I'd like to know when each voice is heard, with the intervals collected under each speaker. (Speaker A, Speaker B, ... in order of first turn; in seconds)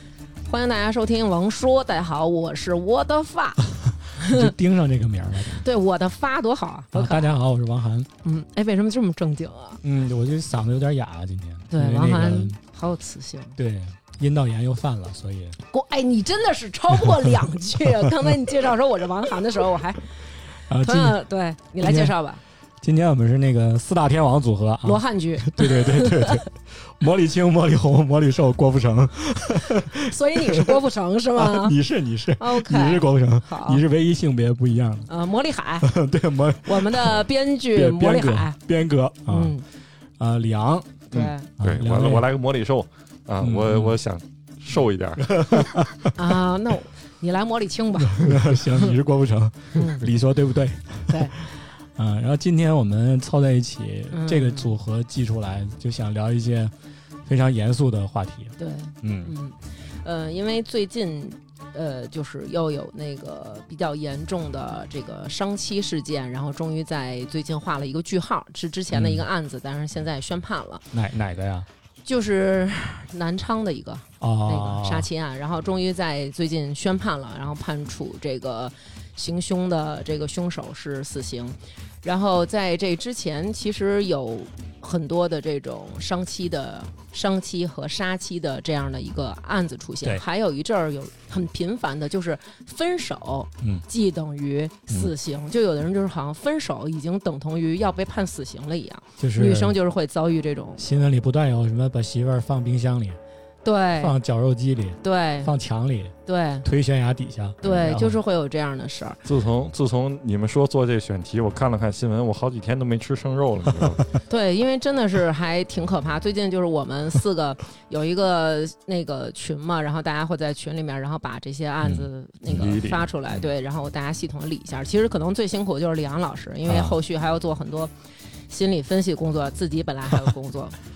Speaker A: 0.5-4.5, 5.5-7.3, 8.2-9.8, 11.7-13.6, 15.7-20.1, 20.8-22.4, 24.8-26.4, 29.7-31.8, 32.4-33.8, 35.1-35.9, 36.6-38.6, 39.3-39.6, 41.1-41.5, 46.1-48.9, 49.8-50.0, 51.1-51.3, 54.1-54.7, 58.6-70.8, 72.0-100.8, 103.6-104.2, 105.0-105.5, 106.2-106.7, 107.6-109.2, 114.3-127.9, 128.5-130.8
Speaker B: 4.2-5.7, 6.9-8.1, 9.8-12.6, 13.6-15.6, 20.7-21.2, 21.8-22.1, 22.8-30.8, 31.3-35.1, 35.8-39.6, 40.2-42.2, 43.4-44.0, 45.2-46.1, 48.0-56.7, 57.2-59.3, 68.9-69.3, 70.9-71.7, 74.2-75.1, 93.6-93.8, 99.2-99.8, 100.8-103.2, 104.0-108.2, 126.7-127.0
Speaker C: 41.1-45.2, 109.2-114.0, 122.5-123.5